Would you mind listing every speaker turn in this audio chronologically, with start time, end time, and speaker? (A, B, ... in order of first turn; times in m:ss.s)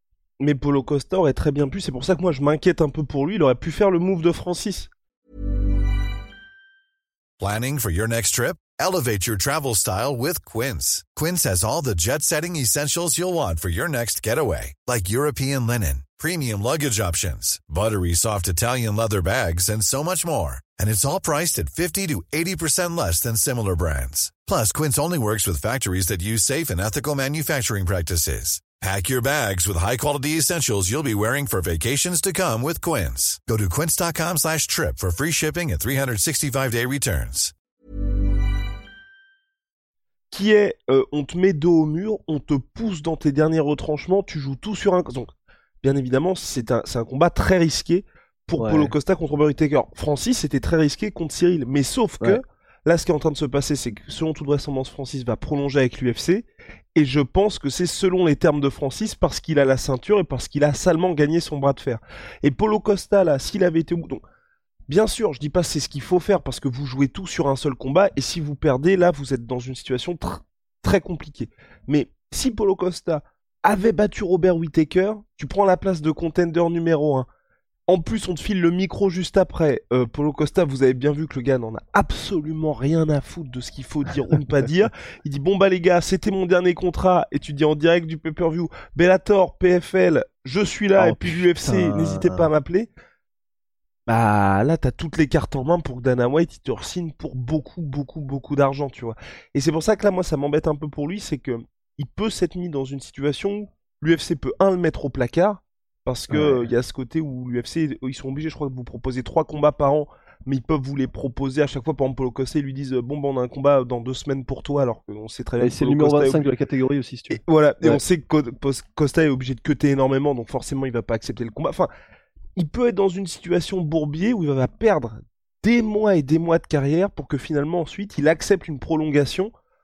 0:00.4-0:04.9 A
0:07.4-0:37.5 B
0:40.3-0:45.3 A
0:45.8-1:04.2 A
0:48.6-0:48.9 C
1:04.9-1:17.3 A
1:17.9-1:32.9 A
1:31.0-1:32.5 C
1:34.1-1:56.5 A
1:46.3-1:46.7 C
1:55.6-1:58.0 C
1:57.3-2:01.9 A
2:02.6-2:09.5 A